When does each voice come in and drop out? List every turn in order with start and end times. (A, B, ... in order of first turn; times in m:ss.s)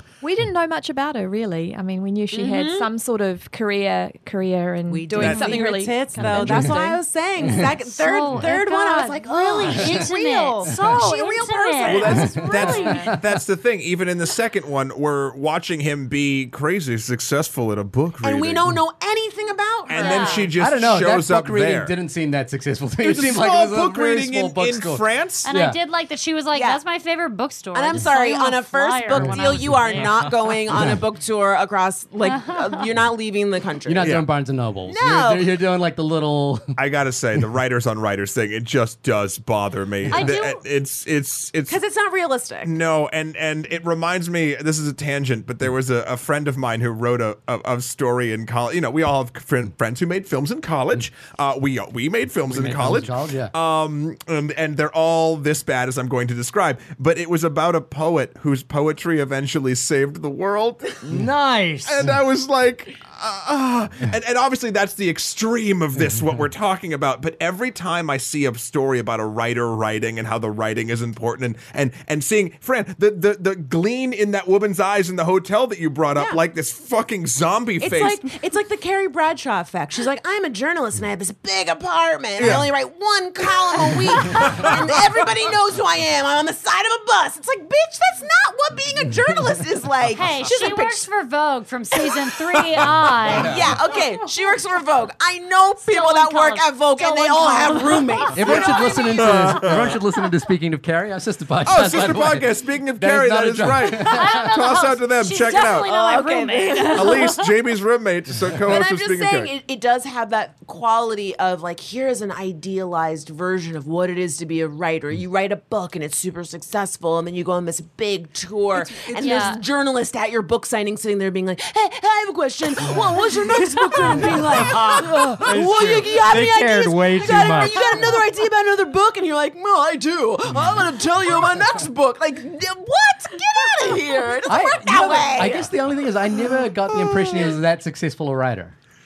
0:00.2-0:07.0 A
0:02.3-0:02.9 B
0:04.9-0:13.0 B
0:05.1-0:05.6 C
0:06.2-0:06.8 D
0:06.2-0:06.7 E
0:07.4-0:07.7 D
0:07.4-0:13.2 E
0:09.7-0:10.0 D
0:11.8-0:18.6 C
0:12.1-0:13.2 D
0:18.2-0:20.6 B
0:19.8-0:21.9 C
0:19.9-0:20.5 E
0:20.6-0:25.8 D
0:23.0-0:25.5 C
0:25.4-0:30.3 E
0:26.5-0:26.8 B
0:27.7-0:34.2 B
0:29.2-0:29.8 D
0:32.2-0:32.8 E
0:33.8-0:36.8 D
0:34.0-0:34.3 C
0:34.9-0:35.5 B
0:36.8-0:41.8 C
0:40.1-0:40.6 E
0:41.7-0:42.7 B
0:42.6-1:01.0 C
0:52.4-0:53.5 D
1:01.0-1:02.0 F
1:01.8-1:18.2 C
1:17.8-1:31.1 B
1:22.4-1:22.7 C
1:24.1-1:25.0 C
1:30.1-1:33.7 E
1:33.3-1:39.3 B
1:33.3-1:33.7 D
1:35.8-1:39.4 E
1:38.3-1:44.4 D
1:38.4-1:40.0 C
1:41.6-1:45.9 C
1:43.8-1:47.5 E
1:45.8-1:47.3 B
1:46.9-1:49.5 C
1:48.6-2:15.7 B
1:58.7-1:59.4 D
1:59.2-1:59.6 E
2:03.8-2:04.4 E
2:04.1-2:08.0 F
2:05.1-2:05.6 D
2:07.7-2:08.1 E
2:14.5-2:18.7 D
2:16.9-2:17.5 C